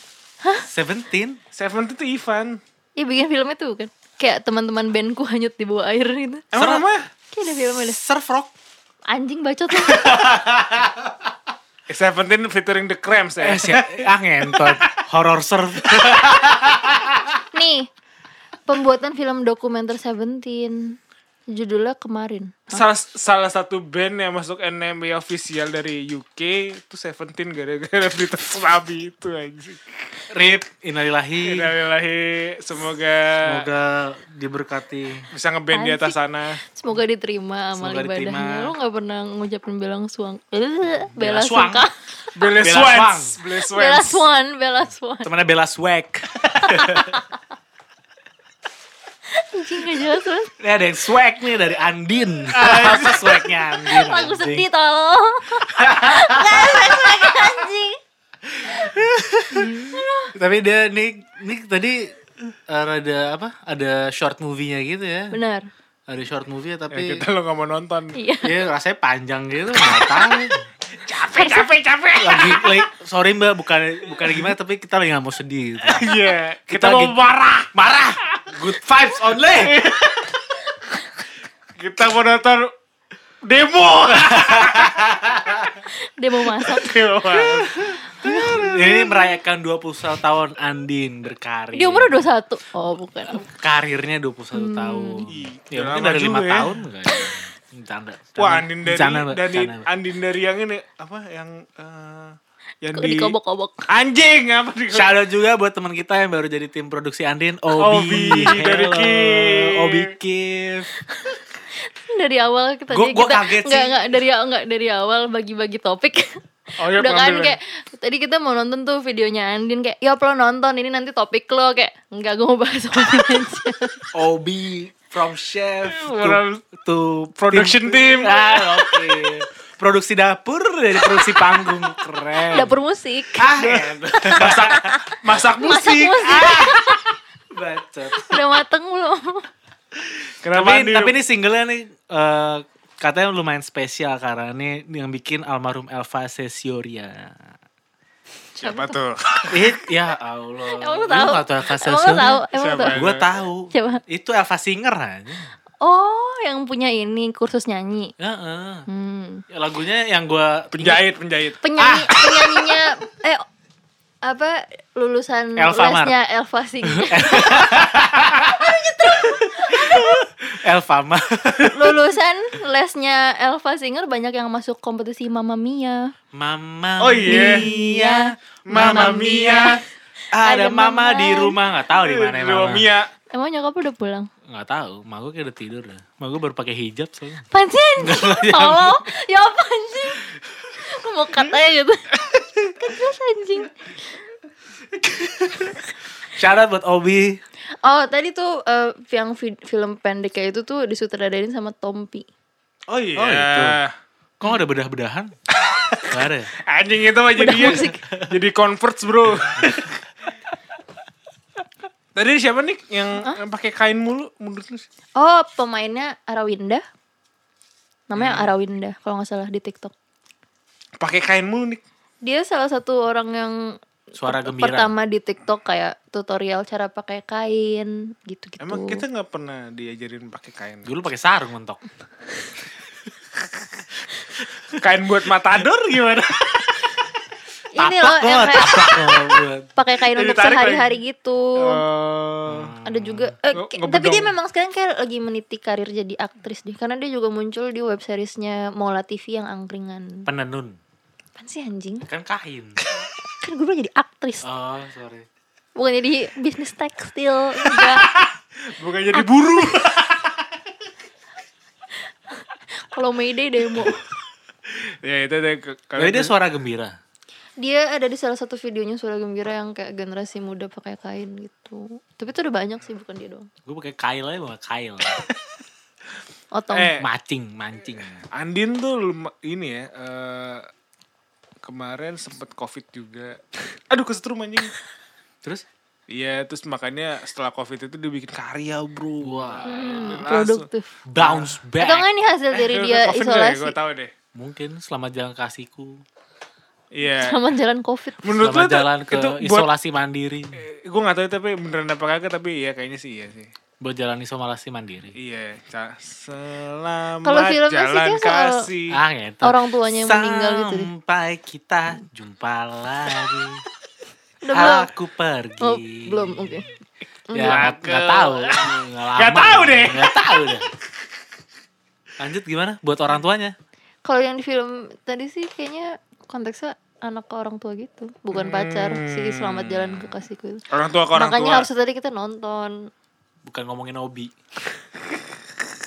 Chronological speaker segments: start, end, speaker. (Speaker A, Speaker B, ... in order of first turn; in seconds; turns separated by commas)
Speaker A: 0.7-1.4, Speaker B: 1.5-2.6, Speaker C: 3.0-6.5, Speaker B: 6.5-7.0, Speaker A: 6.5-6.8, Speaker C: 7.3-8.0, Speaker A: 7.6-8.5, Speaker C: 9.1-10.2, Speaker A: 9.9-10.9, Speaker B: 11.9-14.9, Speaker A: 13.4-17.0, Speaker B: 16.0-16.3, Speaker C: 17.5-17.9, Speaker C: 18.7-21.0, Speaker C: 21.5-22.8, Speaker B: 22.7-30.0, Speaker A: 30.3-31.7, Speaker B: 31.4-33.7, Speaker A: 33.4-35.3, Speaker B: 35.3-36.6, Speaker C: 35.7-41.9, Speaker A: 37.8-38.7, Speaker A: 41.1-41.9, Speaker B: 42.3-44.2, Speaker A: 42.6-43.4, Speaker C: 43.6-45.3, Speaker A: 45.2-47.2, Speaker C: 46.6-47.2, Speaker C: 49.3-50.5, Speaker A: 50.6-54.7, Speaker B: 52.5-53.7, Speaker C: 53.8-58.0, Speaker A: 55.7-57.0, Speaker A: 58.6-62.1, Speaker C: 59.5-60.3, Speaker A: 62.7-65.4, Speaker C: 65.3-65.7, Speaker A: 66.1-67.2, Speaker B: 66.9-68.2, Speaker C: 68.1-68.5, Speaker A: 68.4-70.7, Speaker B: 69.9-70.4, Speaker B: 70.9-72.9, Speaker C: 71.3-71.7, Speaker A: 72.2-77.2, Speaker B: 74.2-74.5, Speaker B: 75.8-77.7, Speaker A: 77.7-79.7, Speaker B: 79.4-80.6, Speaker B: 81.8-82.7, Speaker B: 83.4-85.8, Speaker A: 84.3-85.1, Speaker C: 85.9-87.0, Speaker B: 86.6-89.2, Speaker C: 88.0-88.7, Speaker A: 88.2-92.2, Speaker C: 91.7-93.4, Speaker A: 93.3-99.8, Speaker C: 94.5-95.3, Speaker B: 95.3-96.7, Speaker B: 98.4-103.3, Speaker C: 102.9-103.8, Speaker B: 103.9-105.1, Speaker A: 104.9-110.9, Speaker B: 107.7-110.1, Speaker C: 112.0-124.0, Speaker A: 112.9-114.0, Speaker B: 116.8-117.5, Speaker A: 124.1-132.8, Speaker B: 125.8-126.6, Speaker B: 127.4-129.0, Speaker B: 131.5-131.9, Speaker C: 132.5-133.5, Speaker A: 133.3-135.0, Speaker B: 133.6-136.9, Speaker C: 134.6-135.0, Speaker C: 135.5-137.0, Speaker A: 137.5-138.4, Speaker C: 138.2-139.4, Speaker B: 140.4-141.2, Speaker A: 140.5-147.4, Speaker C: 148.6-148.9, Speaker B: 148.6-149.7, Speaker A: 149.5-155.5, Speaker C: 150.7-153.0, Speaker B: 152.5-153.3, Speaker C: 153.7-154.0, Speaker C: 155.8-158.1, Speaker A: 158.2-158.9, Speaker C: 158.9-159.4, Speaker A: 159.5-161.0, Speaker B: 160.7-161.6, Speaker C: 161.6-163.4, Speaker A: 161.8-162.8, Speaker C: 164.2-170.2, Speaker A: 165.6-166.1, Speaker A: 166.9-172.0, Speaker C: 171.7-176.1, Speaker A: 176.3-179.6, Speaker B: 177.0-177.7, Speaker C: 177.2-179.8, Speaker B: 178.7-179.8, Speaker A: 180.3-182.9, Speaker C: 180.4-181.6, Speaker B: 181.9-183.1, Speaker C: 183.3-184.3, Speaker A: 184.5-187.4, Speaker C: 187.5-192.1, Speaker A: 188.0-189.0, Speaker C: 192.8-193.9, Speaker A: 195.0-195.8, Speaker A: 196.3-197.4, Speaker C: 197.8-202.3, Speaker B: 202.9-203.9, Speaker A: 203.1-203.8, Speaker A: 204.4-205.3, Speaker B: 205.7-210.0, Speaker A: 206.1-206.5, Speaker C: 207.3-208.0, Speaker A: 207.9-208.2, Speaker B: 212.1-214.8, Speaker C: 215.2-216.8, Speaker C: 218.1-219.9, Speaker B: 218.2-218.5, Speaker B: 221.0-221.8, Speaker C: 222.2-229.0, Speaker A: 224.2-224.9, Speaker B: 228.6-230.9, Speaker A: 230.8-231.8, Speaker B: 234.7-236.9, Speaker C: 237.7-239.2, Speaker A: 237.8-239.7, Speaker C: 239.8-241.8, Speaker B: 240.1-241.0, Speaker B: 241.6-242.7, Speaker A: 242.5-243.3, Speaker C: 242.8-250.3, Speaker B: 243.5-244.3, Speaker A: 250.3-250.8, Speaker C: 251.4-252.1, Speaker A: 252.1-252.8, Speaker C: 253.3-254.4, Speaker A: 254.4-255.3, Speaker C: 255.8-258.1, Speaker B: 257.8-260.4, Speaker C: 262.4-264.0, Speaker B: 264.7-266.3, Speaker A: 266.0-267.0, Speaker C: 267.6-273.5, Speaker A: 273.6-275.2, Speaker C: 276.5-277.0, Speaker B: 276.7-277.1, Speaker A: 277.0-278.2, Speaker B: 278.3-280.7, Speaker B: 281.6-284.7, Speaker B: 286.1-290.7, Speaker A: 289.2-290.1, Speaker C: 289.6-290.9, Speaker A: 291.1-292.1, Speaker B: 291.2-291.6, Speaker C: 291.8-293.7, Speaker B: 292.5-294.1, Speaker A: 294.3-296.0, Speaker B: 296.9-297.4, Speaker C: 297.0-298.3, Speaker B: 298.2-299.7, Speaker A: 298.3-300.6, Speaker B: 300.6-303.5, Speaker A: 303.8-305.1, Speaker B: 305.1-309.0, Speaker C: 307.2-308.6, Speaker A: 308.9-313.6, Speaker C: 309.4-310.9, Speaker C: 314.4-314.9, Speaker A: 314.5-316.6, Speaker C: 315.6-316.7, Speaker C: 317.3-317.7, Speaker A: 317.3-320.7, Speaker B: 317.4-320.1, Speaker A: 322.2-323.6, Speaker C: 324.0-332.9, Speaker B: 328.3-329.8, Speaker B: 330.7-331.7, Speaker A: 333.4-334.3